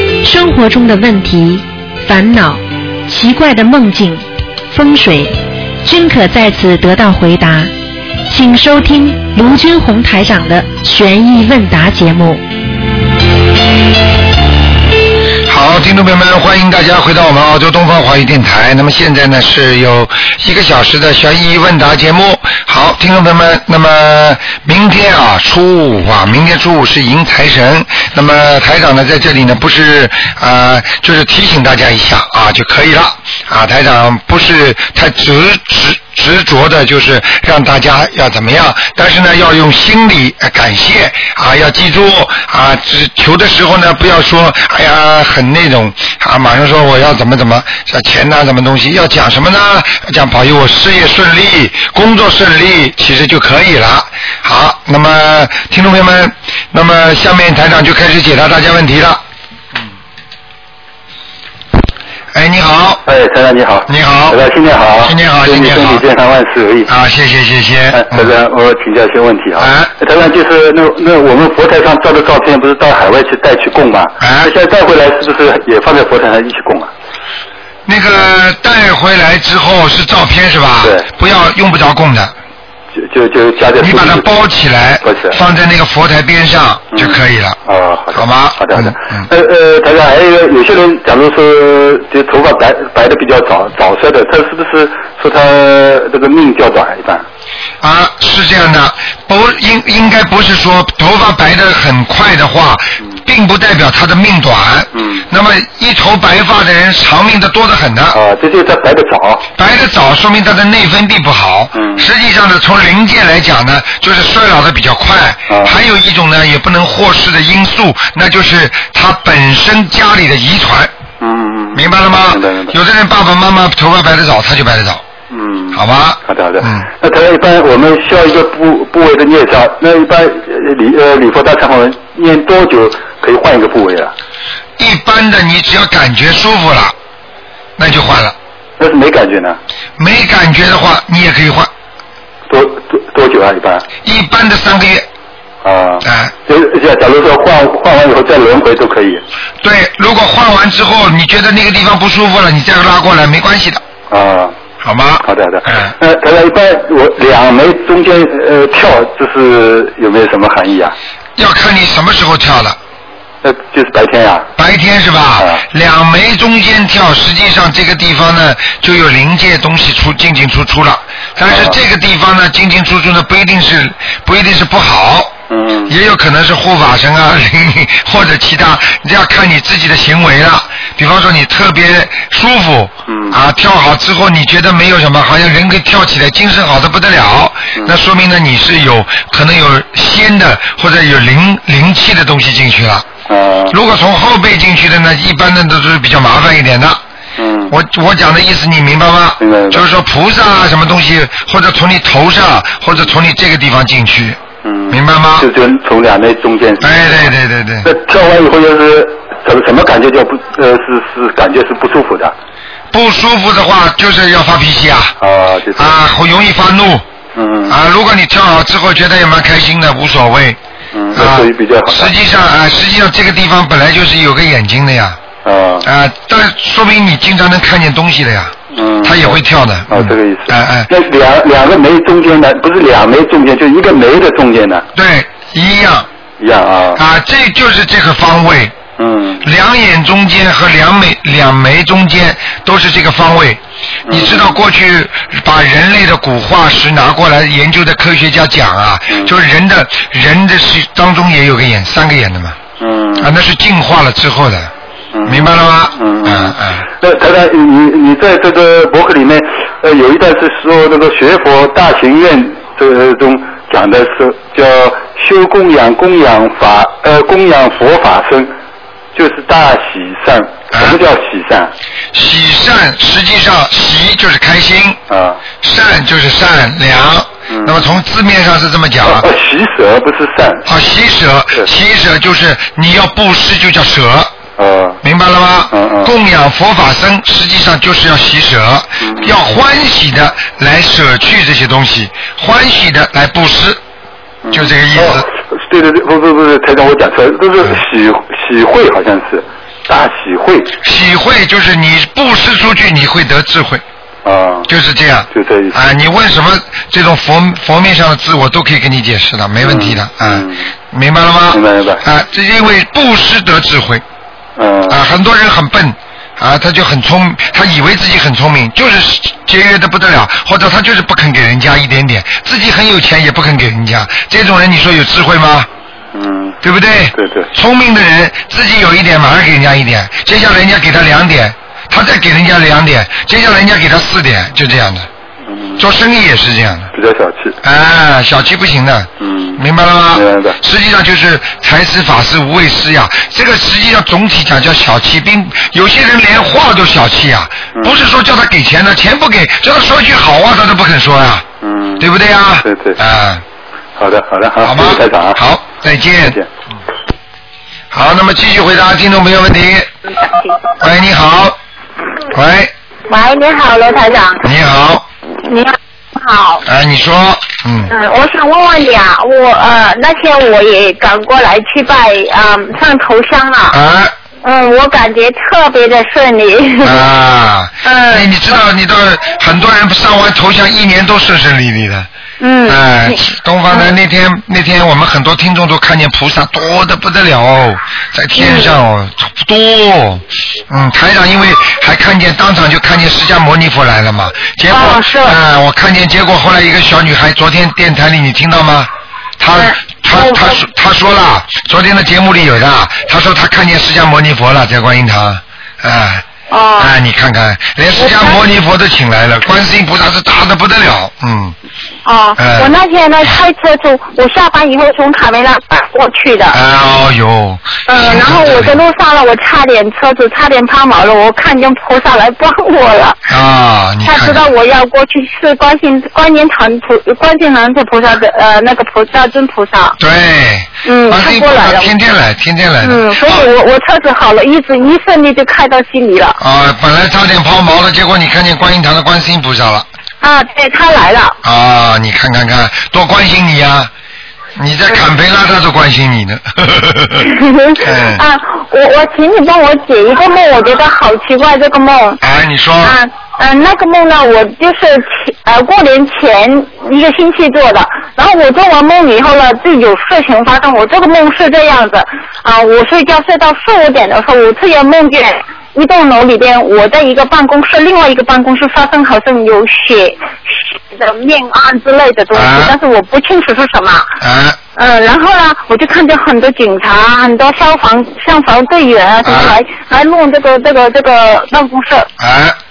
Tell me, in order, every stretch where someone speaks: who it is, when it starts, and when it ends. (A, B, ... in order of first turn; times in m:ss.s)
0:00.2-0:07.7 A
0:08.3-0:12.4 A
0:15.5-0:59.2 B
1:02.3-1:03.0 B
1:03.1-1:06.9 C
1:03.9-1:04.4 B
1:05.0-1:06.0 B
1:06.9-1:08.3 B
1:07.9-1:16.9 C
1:09.6-1:09.9 B
1:14.2-1:14.5 B
1:17.9-1:22.3 B
1:23.0-1:24.3 C
1:23.8-1:27.6 B
1:25.0-1:25.4 C
1:27.0-1:37.2 C
1:28.1-1:29.3 B
1:37.8-1:48.2 B
1:45.0-1:45.2 C
1:48.1-1:49.4 C
1:49.6-2:00.9 B
1:51.8-1:52.0 C
1:55.5-1:55.7 C
2:01.2-2:02.7 C
2:01.8-2:05.0 B
2:05.3-2:14.1 C
2:05.7-2:06.9 B
2:14.8-2:17.0 B
2:17.8-2:18.4 B
2:18.8-2:19.6 C
2:20.0-2:21.7 B
2:22.5-2:23.8 C
2:24.0-2:25.1 B
2:25.6-2:29.2 C
2:26.0-2:26.3 B
2:29.6-2:33.8 B
2:34.1-2:34.6 C
2:34.8-2:35.9 B
2:35.2-2:41.0 C
2:41.4-2:42.8 B
2:43.4-2:44.5 C
2:44.6-3:13.1 B
2:51.5-2:51.8 C
2:55.5-2:55.9 C
3:03.1-3:03.4 C
3:13.3-3:13.7 C
3:13.7-3:17.0 B
3:17.4-3:17.7 C
3:17.7-3:25.5 B
3:19.4-3:19.8 C
3:24.6-3:27.2 C
3:26.8-3:27.9 B
3:27.8-3:32.3 C
3:32.9-3:35.1 B
3:35.2-3:35.9 C
3:35.8-3:37.0 B
3:37.4-3:37.8 C
3:37.7-3:40.6 B
3:40.9-3:42.1 C
3:41.1-3:45.2 B
3:45.4-3:45.8 C
3:45.8-3:50.9 B
3:48.7-3:49.4 C
3:49.9-3:54.8 C
3:55.0-3:56.1 B
3:56.4-3:57.0 C
3:57.0-3:58.8 B
3:59.0-3:59.4 C
3:59.4-4:12.6 B
4:04.1-4:04.5 C
4:12.8-4:13.3 C
4:13.2-4:14.7 B
4:15.2-4:28.5 C
4:15.2-4:16.8 B
4:29.2-4:31.7 C
4:30.7-4:31.0 B
4:32.1-4:35.0 B
4:35.1-4:35.4 C
4:35.6-4:39.3 B
4:37.5-4:37.9 C
4:39.0-4:40.6 C
4:40.7-4:44.3 B
4:44.6-4:45.0 C
4:45.0-4:53.8 B
4:45.7-4:46.1 C
4:49.0-4:49.3 C
4:54.4-5:00.7 C
4:54.5-4:55.3 B
5:00.8-5:03.8 B
5:04.2-5:04.7 C
5:04.7-5:14.0 B
5:05.3-5:05.8 C
5:09.6-5:10.7 C
5:11.5-5:12.0 C
5:14.6-5:15.0 C
5:14.9-5:25.7 B
5:26.1-5:26.6 C
5:26.6-5:35.1 B
5:27.1-5:27.5 C
5:35.5-5:35.8 C
5:35.8-5:36.9 B
5:36.9-5:37.6 C
5:37.6-5:51.5 B
5:39.2-5:39.6 C
5:40.1-5:40.6 C
5:51.6-5:52.1 C
5:52.0-5:53.4 B
5:52.6-5:53.0 C
5:54.0-5:55.4 C
5:54.6-5:56.4 B
5:57.9-5:59.9 B
6:00.1-6:00.6 D
6:00.8-6:01.6 B
6:02.3-6:02.7 B
6:03.1-6:04.4 D
6:04.4-6:05.0 B
6:05.4-6:06.6 D
6:06.6-6:07.9 B
6:07.9-6:13.8 D
6:13.7-6:14.1 B
6:14.4-6:17.1 D
6:16.8-6:22.1 B
6:17.8-6:18.3 D
6:22.4-6:23.2 D
6:22.7-6:46.2 B
6:28.4-6:28.8 D
6:34.7-6:35.4 D
6:39.5-6:40.6 D
6:46.5-6:46.9 D
6:46.8-6:51.6 B
6:48.0-6:48.4 D
6:52.0-6:56.6 D
6:52.4-6:52.7 B
6:56.5-6:58.8 B
6:57.9-7:03.2 D
7:03.3-7:04.5 B
7:04.0-7:10.0 D
7:10.0-7:13.4 B
7:10.8-7:11.9 D
7:12.8-7:16.4 D
7:16.4-7:19.9 B
7:20.2-7:21.4 D
7:21.4-7:23.9 B
7:24.6-7:27.3 B
7:27.2-7:32.2 D
7:27.8-7:28.2 B
7:32.2-7:33.0 B
7:32.8-7:50.2 D
7:50.9-7:54.2 D
7:52.3-7:52.8 B
7:54.2-7:54.6 B
7:54.8-8:02.1 D
7:59.2-7:59.6 B
8:02.2-8:02.6 B